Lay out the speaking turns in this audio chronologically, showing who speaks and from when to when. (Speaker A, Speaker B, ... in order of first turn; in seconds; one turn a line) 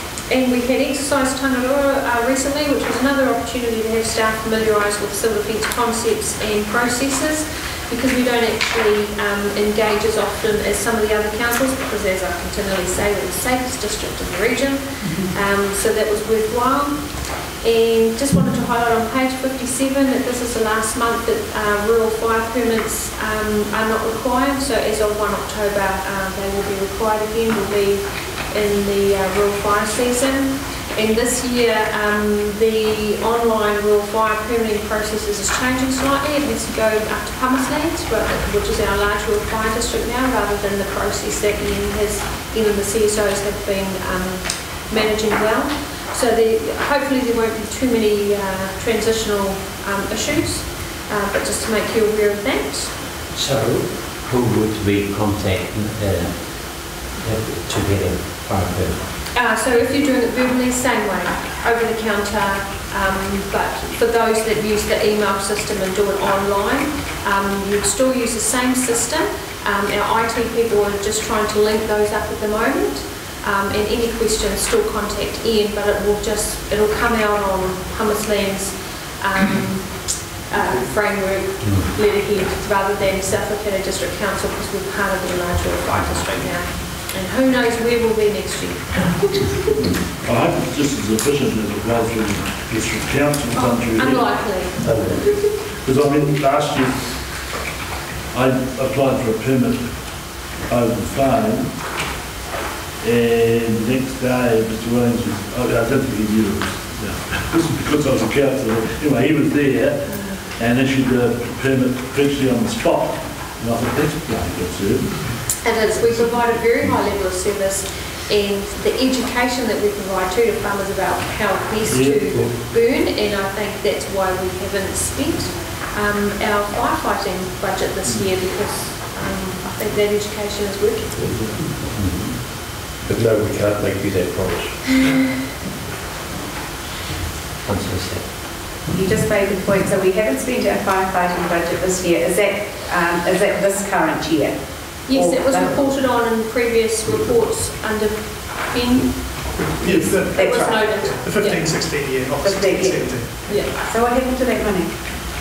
Speaker A: 0.3-53.0
Speaker B: 53.3-59.0
Speaker A: 59.3-89.9
Speaker B: 81.6-82.0
Speaker C: 90.2-97.5
Speaker A: 93.5-95.6
Speaker C: 98.3-101.9
Speaker C: 103.0-117.0
Speaker A: 110.0-110.5
Speaker A: 115.6-131.2
Speaker C: 121.8-122.6
Speaker C: 131.2-131.6
Speaker B: 131.8-132.4
Speaker D: 133.0-135.0
Speaker B: 137.6-138.3
Speaker E: 138.9-145.9
Speaker A: 145.1-149.5
Speaker F: 149.5-153.7
Speaker E: 149.8-151.1
Speaker A: 150.2-151.7
Speaker E: 152.4-155.0
Speaker A: 153.5-153.7